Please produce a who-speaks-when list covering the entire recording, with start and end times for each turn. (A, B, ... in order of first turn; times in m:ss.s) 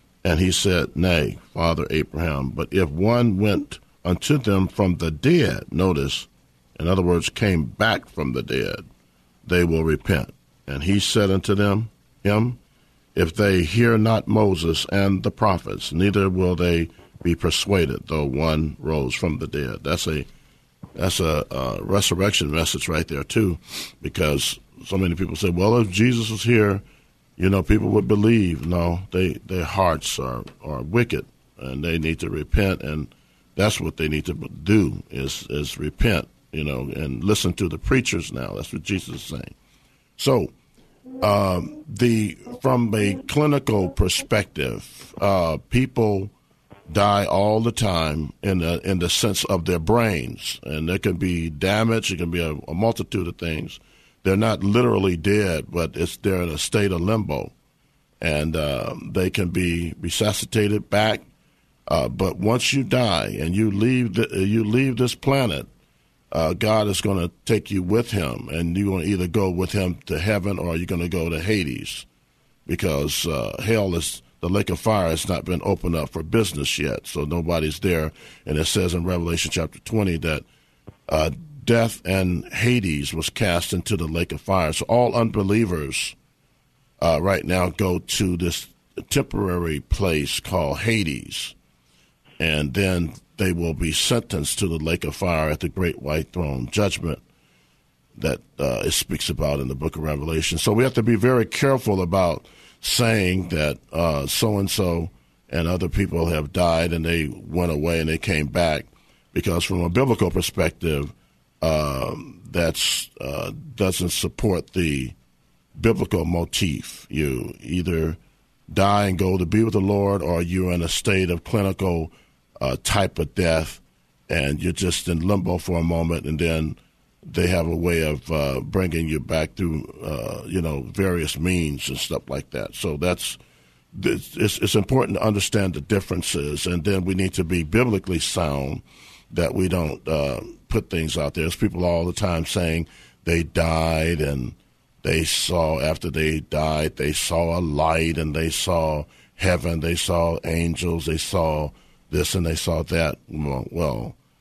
0:00.2-0:08.8 A
0:09.4-0:12.6 A
0:13.1-0:20.3 A
0:21.0-0:26.8 A
0:27.4-0:39.5 A
0:40.2-0:40.5 A
0:41.2-0:46.3 A
0:46.9-0:57.5 A
0:58.2-1:01.2 A
1:01.9-1:05.7 A
1:06.3-1:12.0 A
1:12.6-1:20.4 A
1:21.1-1:26.2 A
1:27.0-1:31.5 A
1:32.4-1:37.2 A
1:38.2-1:55.1 A
1:55.8-2:13.4 A
2:13.9-2:34.2 A